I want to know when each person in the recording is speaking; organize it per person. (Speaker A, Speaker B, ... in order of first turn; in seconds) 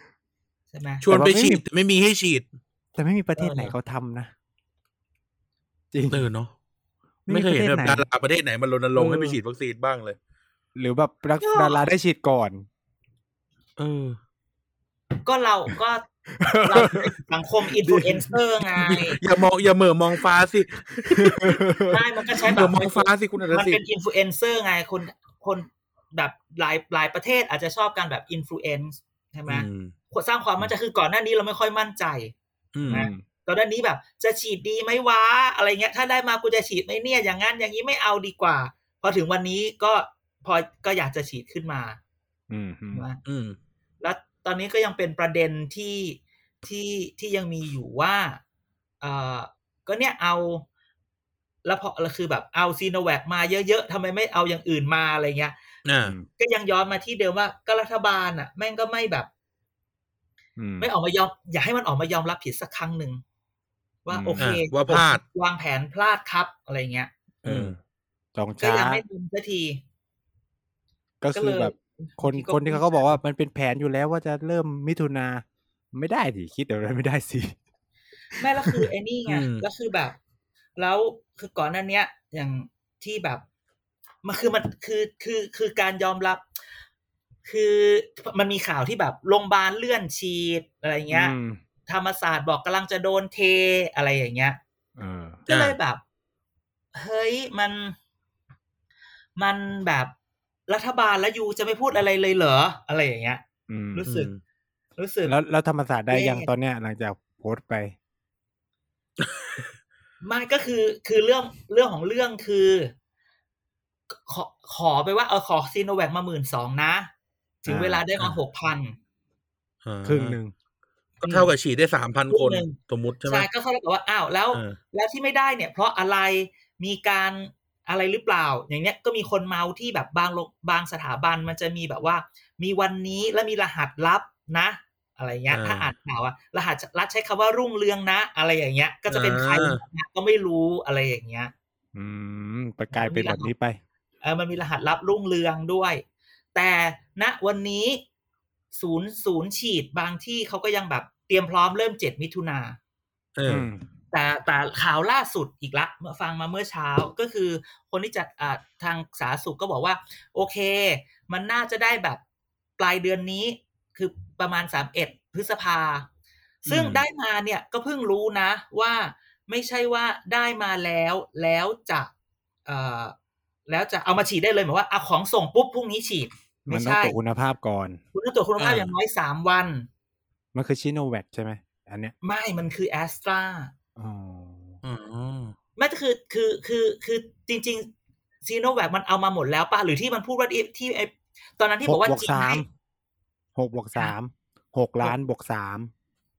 Speaker A: 0.7-1.0, 3.4-3.7, 11.4-11.8, 15.2-16.0, 16.6-19.2, 21.9-32.3, 32.9-42.0, 42.9-43.2, 44.0-48.4, 49.0-50.6, 51.6-55.5, 56.4-59.3, 60.8-63.2, 64.0-67.1, 68.6-69.8, 71.3-73.2, 78.3-80.2, 80.8-83.4, 84.2-86.4, 87.4-91.3, 91.8-94.6, 95.5-96.0, 96.9-98.0, 99.4-100.1, 100.7-103.4, 103.9-104.3, 105.0-105.3, 106.1-106.5, 110.2-112.9, 114.1-117.1, 117.6-119.0, 121.2-121.5, 122.3-141.5, 142.9-143.5, 144.2-148.0, 148.7-152.8, 154.1-162.2, 162.8-166.1, 166.7-172.1, 172.7-173.1, 173.7-177.2, 178.1-179.9, 182.2-183.7, 185.8-187.9, 188.4-192.6
Speaker B: 1.0-2.5, 6.1-6.5, 7.3-10.2, 13.8-14.2, 19.2-21.6, 22.4-23.8, 29.5-29.9, 32.7-33.1, 43.2-43.5, 55.8-56.1, 64.4-65.2, 67.4-67.7, 79.3-79.6, 95.5-95.8, 104.0-104.4, 109.2-109.7, 119.8-120.4, 121.3-123.5, 135.5-135.9, 139.1-139.8, 153.3-153.7, 166.7-167.0, 178.6-178.9, 184.8-185.5
Speaker C: 1.1-1.6, 2.9-4.3, 5.9-6.3, 7.3-8.0, 8.9-9.4, 10.8-12.7, 16.3-17.1, 17.6-19.1, 21.2-22.0, 32.9-33.2, 42.5-43.0, 60.6-60.9, 64.1-64.4, 67.4-67.8, 68.3-69.0, 71.2-77.6, 78.3-78.9, 91.1-91.6, 95.0-95.4, 103.7-104.0, 105.2-107.9, 117.7-118.0, 120.0-120.5, 141.9-143.8, 153.5-153.8, 176.7-178.0, 180.5-182.1, 183.9-184.8, 191.8-192.7, 193.6-195.9